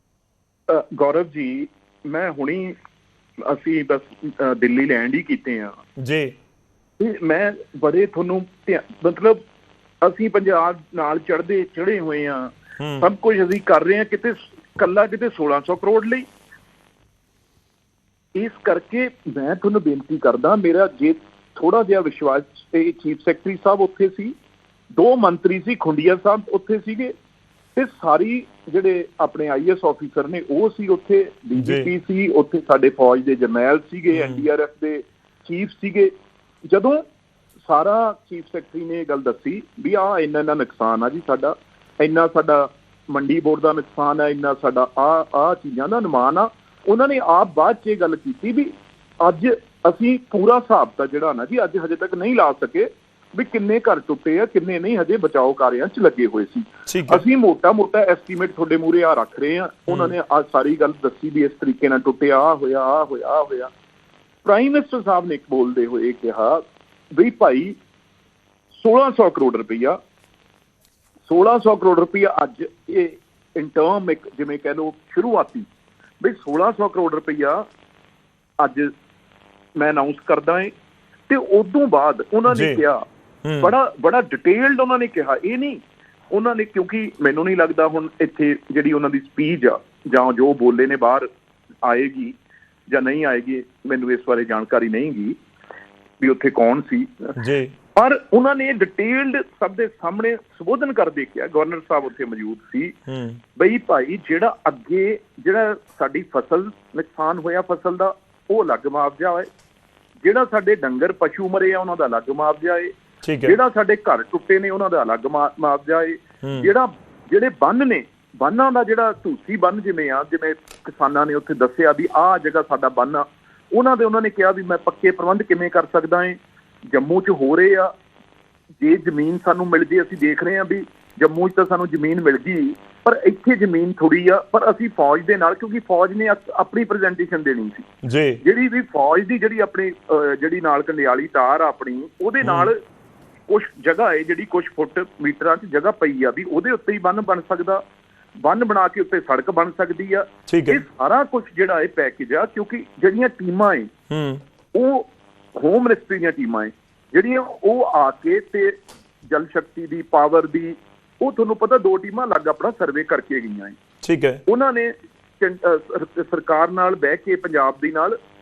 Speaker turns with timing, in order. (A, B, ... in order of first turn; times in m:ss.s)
0:00.7-0:02.7 A
0:03.4-0:05.8 A
0:06.0-0:06.3 B
0:07.0-0:09.4 A
0:10.0-0:16.2 A
0:12.8-0:13.0 B
0:18.4-0:24.3 A
0:25.0-0:27.1 A
0:27.8-0:36.1 A
0:31.6-0:31.9 B
0:34.1-0:34.4 B
0:36.7-0:37.0 A
0:37.6-1:03.7 A
0:56.9-0:57.2 B
1:04.4-1:07.8 A
1:08.7-1:10.0 A
1:11.2-1:15.6 A
1:16.2-1:17.6 A
1:18.6-1:18.9 A
1:19.8-1:20.7 A
1:21.3-1:23.0 A
1:22.5-1:22.8 B
1:23.4-1:23.7 B
1:23.6-1:25.8 A
1:26.3-1:31.2 A
1:31.8-1:32.3 A
1:32.9-1:35.3 A
1:36.2-1:37.3 A
1:37.4-1:37.7 B
1:37.9-1:42.9 A
1:43.1-1:43.4 B
1:43.6-1:49.5 A
1:50.2-1:52.9 A
1:53.2-1:53.6 B
1:53.4-2:06.4 A
1:56.4-1:56.7 B
2:06.9-2:07.9 A
2:08.8-2:17.9 A
2:18.0-2:18.4 B
2:18.4-2:22.8 A
2:22.4-2:22.7 B
2:23.5-2:27.8 A
2:28.4-2:33.9 A
2:30.5-2:30.8 B
2:34.1-2:34.4 B
2:34.7-2:38.7 A
2:39.3-2:43.8 A
2:44.0-2:44.4 B
2:44.5-2:48.1 A